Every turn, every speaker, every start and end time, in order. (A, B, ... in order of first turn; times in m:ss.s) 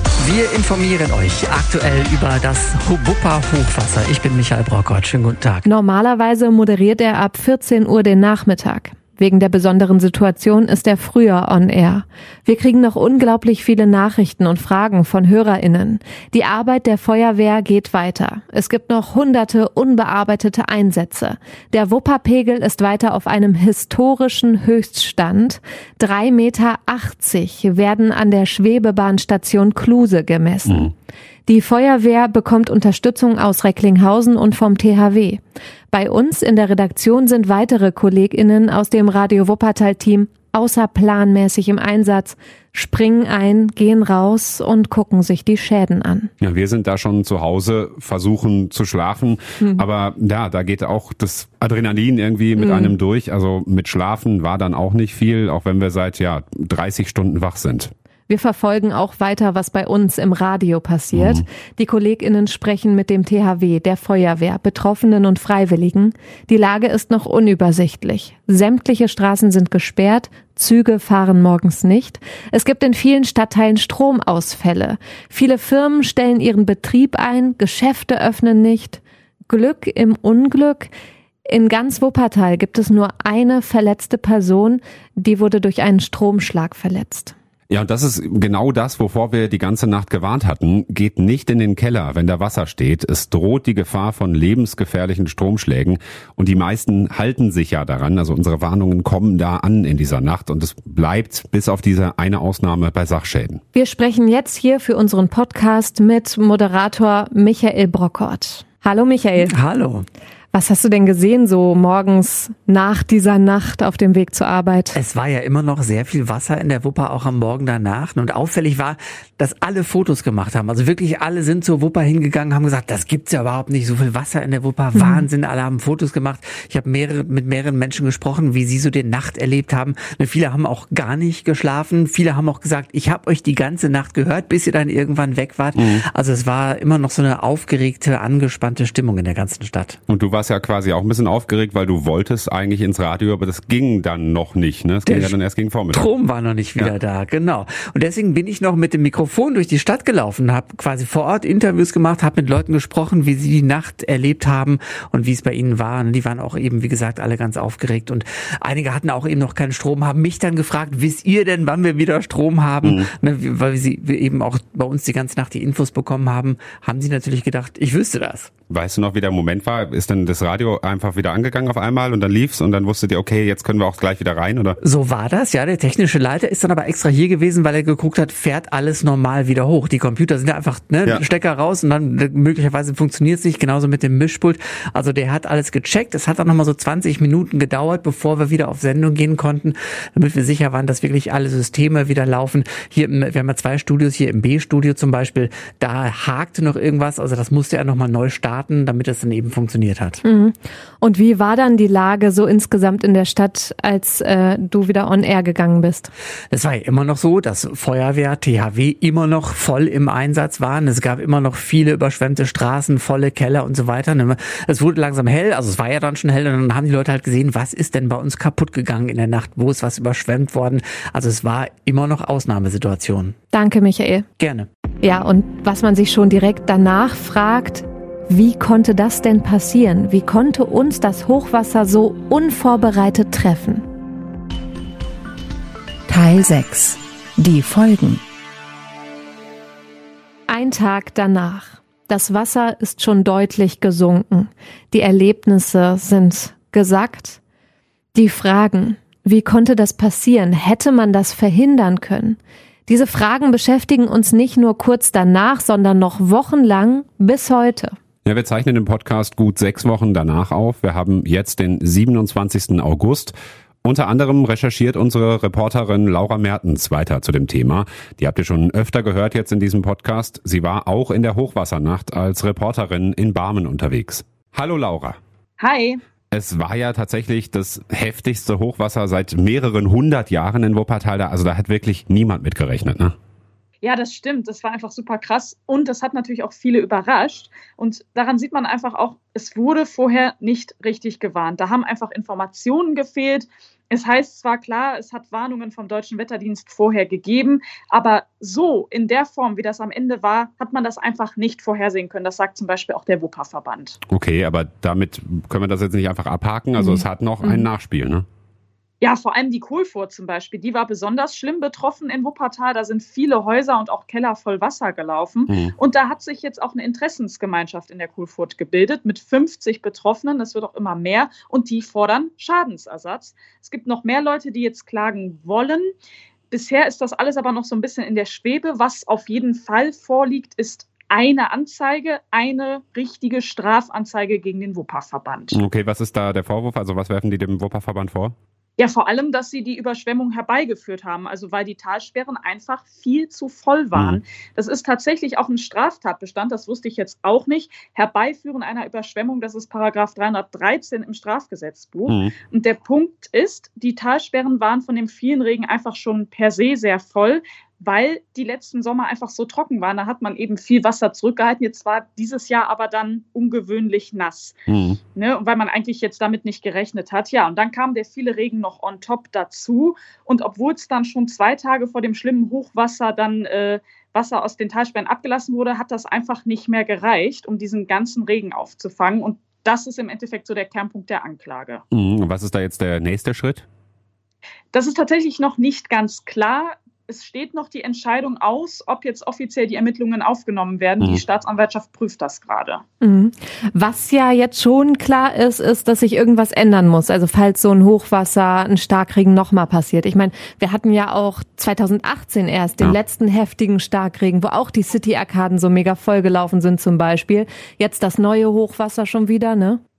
0:00.2-0:05.6 A
0:05.6-0:30.9 B
0:30.6-0:30.9 C
0:31.5-0:35.4 B
0:35.9-0:46.3 B
0:46.4-0:57.9 C
0:52.6-0:52.9 B
0:58.3-1:20.9 B
1:01.1-1:01.4 C
1:21.5-1:27.3 B
1:27.7-1:43.6 C
1:43.7-1:49.5 B
1:49.4-1:50.1 A
1:50.5-1:55.0 B
1:54.9-2:20.0 A
2:05.0-2:05.2 B
2:15.7-2:16.0 C
2:20.1-2:26.1 C
2:25.0-2:25.3 A
2:25.9-2:48.5 A
2:42.8-2:43.1 C
2:48.7-2:54.8 C
2:54.8-3:20.2 A
3:20.2-3:26.1 B
3:26.5-3:43.4 A
3:43.5-3:44.3 B
3:44.4-3:44.7 A
3:45.0-3:53.8 B
3:56.1-3:58.2 D
4:00.5-4:07.4 B
4:08.1-4:17.9 B
4:18.2-4:35.2 C
4:35.6-4:36.0 E
4:36.3-4:43.1 C
4:43.8-5:04.0 E
5:04.1-5:08.2 C
5:06.8-5:07.6 B
5:09.0-5:25.9 E
5:26.5-5:35.6 E
5:35.5-5:38.3 C
5:38.8-6:04.6 E
5:52.1-5:52.3 C
6:04.7-6:05.0 C
6:05.1-6:21.8 E
6:21.9-6:23.6 C
6:24.7-6:32.8 E
6:33.0-6:49.8 B